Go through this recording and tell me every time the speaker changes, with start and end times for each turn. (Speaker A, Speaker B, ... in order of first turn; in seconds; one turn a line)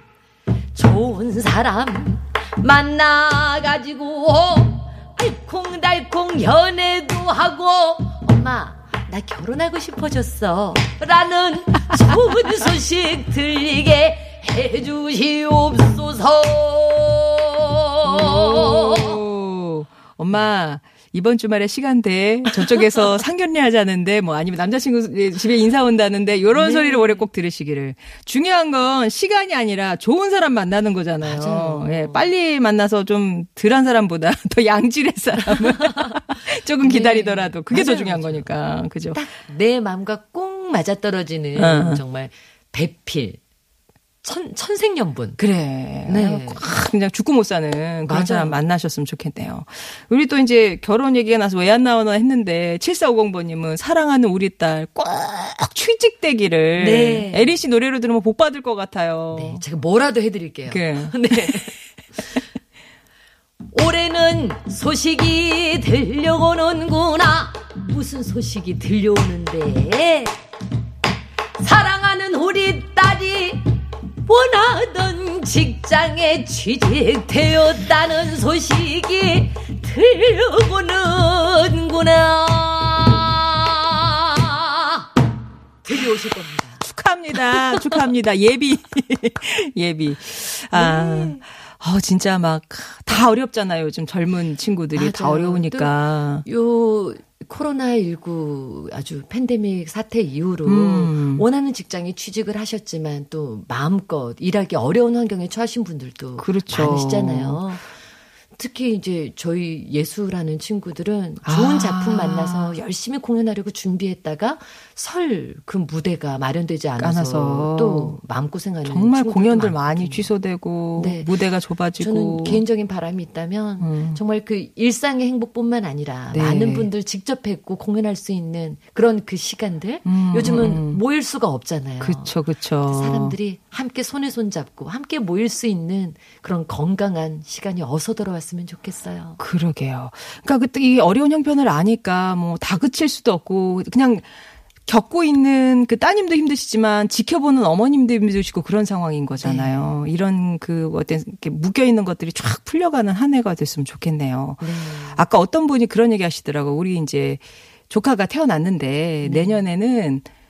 Speaker A: 0.7-19.2
Speaker B: 18.1-39.2
Speaker A: 26.5-27.3
Speaker A: 31.2-32.3
Speaker A: 35.6-36.2
Speaker A: 36.8-38.5
Speaker A: 39.1-43.4
Speaker B: 41.5-42.0
Speaker A: 44.2-45.4
Speaker B: 45.4-59.6
Speaker A: 46.1-46.6
Speaker A: 48.0-48.6
Speaker A: 56.8-57.5
Speaker A: 59.3-61.8
Speaker B: 60.7-61.7
Speaker A: 63.7-70.4
Speaker A: 71.6-85.1
Speaker A: 85.8-86.8
Speaker B: 86.8-96.5
Speaker A: 87.5-87.8
Speaker A: 90.7-91.4
Speaker A: 95.0-107.9
Speaker B: 100.7-101.5
Speaker B: 106.4-107.6
Speaker A: 108.6-120.3
Speaker B: 111.4-112.8
Speaker B: 117.0-118.2
Speaker B: 118.8-122.6
Speaker A: 121.0-121.3
Speaker A: 122.0-139.4
Speaker B: 123.8-124.2
Speaker B: 126.3-126.9
Speaker B: 130.1-131.0
Speaker B: 132.0-133.3
Speaker B: 139.4-144.3
Speaker B: 144.9-160.2
Speaker A: 149.4-149.9
Speaker A: 154.6-155.2
Speaker A: 159.2-159.6